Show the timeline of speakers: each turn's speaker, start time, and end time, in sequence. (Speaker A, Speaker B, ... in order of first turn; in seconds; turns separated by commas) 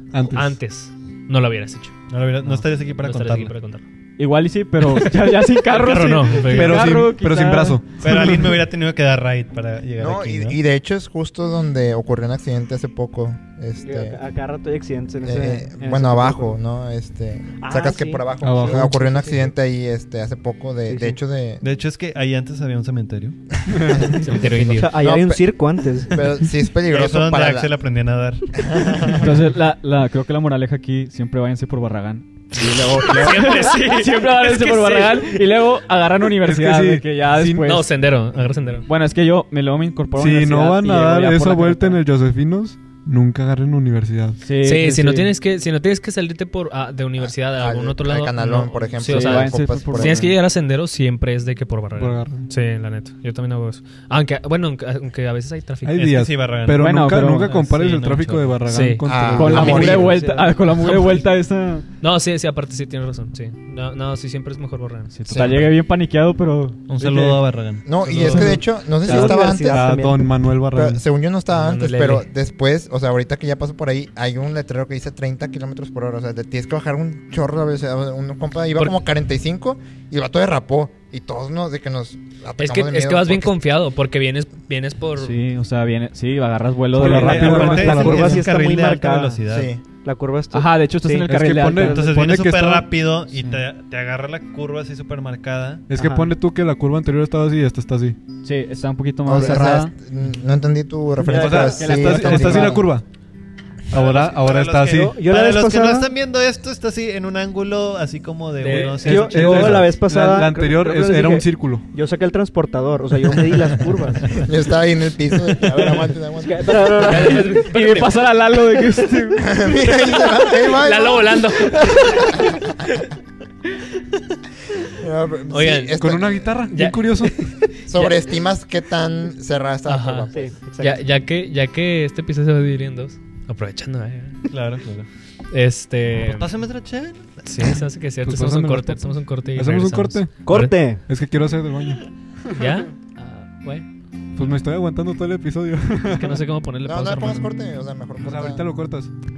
Speaker A: 0.1-0.6, Speaker B: 0.2-2.0, Speaker C: 2.1-3.5, Speaker B: 2.9-3.8, Speaker D: 4.2-7.8, Speaker B: 5.7-7.0, Speaker C: 5.8-6.8, Speaker A: 6.5-8.6, Speaker C: 8.0-10.6, Speaker E: 10.0-14.2, Speaker F: 13.8-16.6, Speaker E: 15.2-21.6, Speaker F: 17.6-19.5, Speaker A: 18.4-19.0, Speaker F: 20.9-21.2, Speaker C: 21.6-23.4, Speaker E: 23.7-27.7, Speaker A: 23.8-24.1, Speaker B: 24.1-25.0, Speaker F: 24.7-26.2, Speaker C: 26.9-29.1, Speaker E: 28.6-29.4, Speaker D: 29.1-37.9, Speaker B: 32.7-35.5, Speaker A: 36.4-37.8, Speaker B: 37.6-38.9, Speaker D: 38.9-42.0, Speaker A: 40.2-44.4, Speaker D: 44.4-45.3, Speaker B: 44.6-56.0, Speaker E: 47.2-50.3, Speaker D: 49.0-50.4, Speaker A: 52.0-52.5, Speaker A: 55.9-60.2, Speaker C: 56.0-58.5, Speaker D: 56.8-57.6, Speaker B: 58.7-59.8, Speaker E: 59.0-60.1, Speaker D: 59.3-61.9, Speaker F: 59.6-60.5, Speaker B: 60.8-61.2, Speaker B: 62.0-65.7, Speaker D: 65.1-67.4, Speaker E: 65.3-65.6, Speaker C: 66.9-68.6, Speaker E: 67.9-70.0, Speaker A: 68.2-71.0, Speaker D: 68.2-68.6, Speaker F: 68.8-70.2, Speaker E: 70.7-83.5, Speaker B: 71.5-72.3, Speaker B: 82.6-85.4, Speaker D: 85.2-88.4, Speaker C: 86.9-89.7, Speaker A: 87.0-88.5, Speaker F: 87.0-89.4, Speaker E: 89.5-89.8, Speaker F: 90.0-92.1, Speaker D: 90.5-92.1, Speaker A: 91.2-92.9, Speaker C: 91.8-95.8, Speaker A: 95.9-98.2, Speaker F: 95.9-96.3, Speaker D: 98.4-99.9, Speaker E: 99.2-102.9, Speaker F: 101.3-101.7, Speaker A: 101.3-103.1, Speaker D: 101.3-102.9, Speaker A: 103.9-105.2, Speaker C: 103.9-109.9, Speaker F: 104.9-106.1, Speaker B: 108.6-109.5, Speaker F: 109.0-114.4, Speaker A: 109.0-111.9, Speaker E: 114.4-116.9, Speaker F: 115.8-117.6, Speaker B: 117.0-118.3, Speaker D: 117.1-119.8, Speaker E: 119.4-122.5, Speaker B: 120.0-122.7, Speaker E: 124.9-126.5, Speaker B: 125.5-126.0, Speaker A: 126.0-127.5, Speaker B: 126.7-128.2, Speaker E: 127.8-130.6, Speaker B: 129.9-134.5, Speaker F: 130.3-131.0, Speaker C: 134.5-135.1, Speaker B: 135.5-136.5, Speaker C: 136.2-137.8, Speaker B: 137.4-140.7, Speaker A: 138.2-142.6, Speaker F: 140.4-141.0, Speaker B: 142.6-143.9, Speaker A: 144.3-146.4, Speaker B: 146.1-147.5, Speaker E: 146.8-148.7, Speaker A: 148.2-149.1